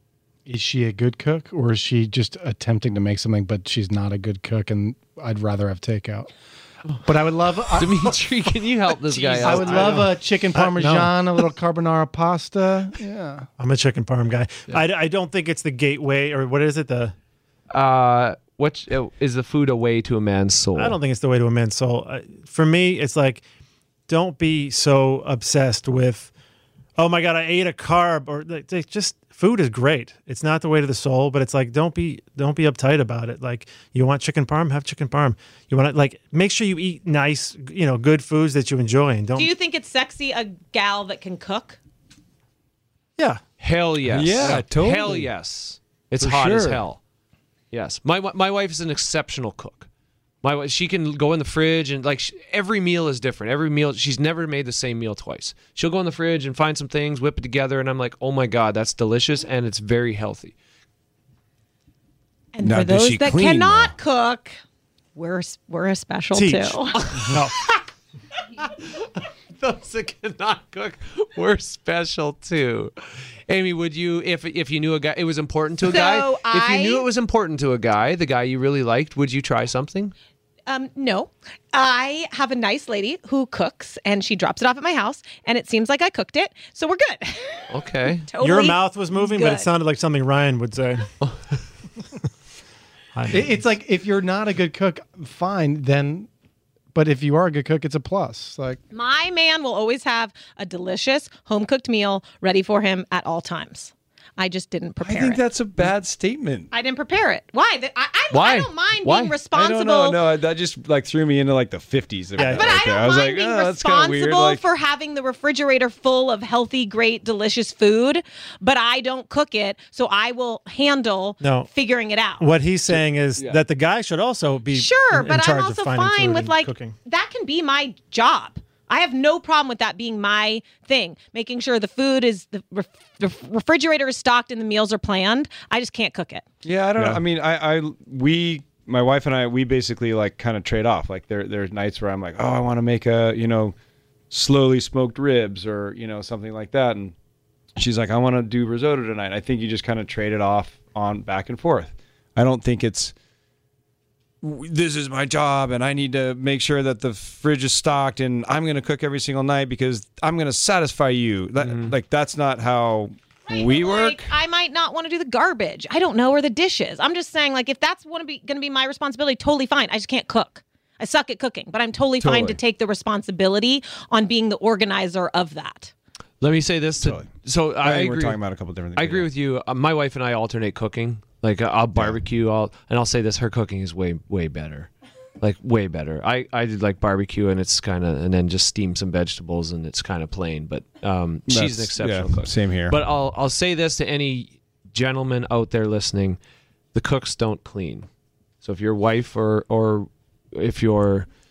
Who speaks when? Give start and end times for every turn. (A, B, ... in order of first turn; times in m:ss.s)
0:00.4-0:06.3 A
0:07.0-0:08.2 A
0:07.7-0:10.1 B
0:09.3-0:11.1 C
0:09.4-0:13.5 A
0:13.6-0:17.1 C
0:17.7-0:21.0 B
0:20.8-0:23.4 C
0:24.1-0:26.3 C
0:27.0-0:39.5 C
0:39.4-0:41.8 D
0:43.6-0:47.0 B
0:44.1-0:45.3 E
0:46.2-0:46.8 E
0:47.7-0:49.9 B
0:50.4-1:00.5 B
1:02.5-1:04.6 D
1:02.6-1:03.9 E
1:05.1-1:07.0 D
1:06.3-1:07.5 C
1:06.9-1:07.8 B
1:08.6-1:12.9 B
1:13.5-1:20.1 B
1:15.8-1:17.0 D
1:20.7-1:27.6 D
1:27.7-1:28.3 B
1:28.3-1:29.7 D
1:28.4-1:31.1 C
1:31.2-1:31.6 B
1:33.1-1:33.5 C
1:33.3-1:36.3 A
1:36.9-1:38.8 A
1:38.9-1:45.4 D
1:45.0-1:46.7 E
1:46.7-1:50.2 D
1:48.3-1:49.4 B
1:49.5-1:54.6 E
1:52.4-1:52.7 C
1:52.4-2:02.4 D
2:01.4-2:01.7 C
2:02.4-2:07.0 C
2:04.7-2:16.4 D
2:16.6-2:23.7 E
2:24.3-2:27.1 E
2:27.8-2:33.1 E
2:34.4-2:44.3 E
2:41.6-2:41.9 B
2:43.5-2:55.9 D
2:52.2-2:52.6 E
2:56.4-2:58.4 B
2:57.0-2:59.3 E
2:59.0-3:16.4 B
3:11.5-3:13.0 E
3:16.9-3:18.1 B
3:18.6-3:21.3 B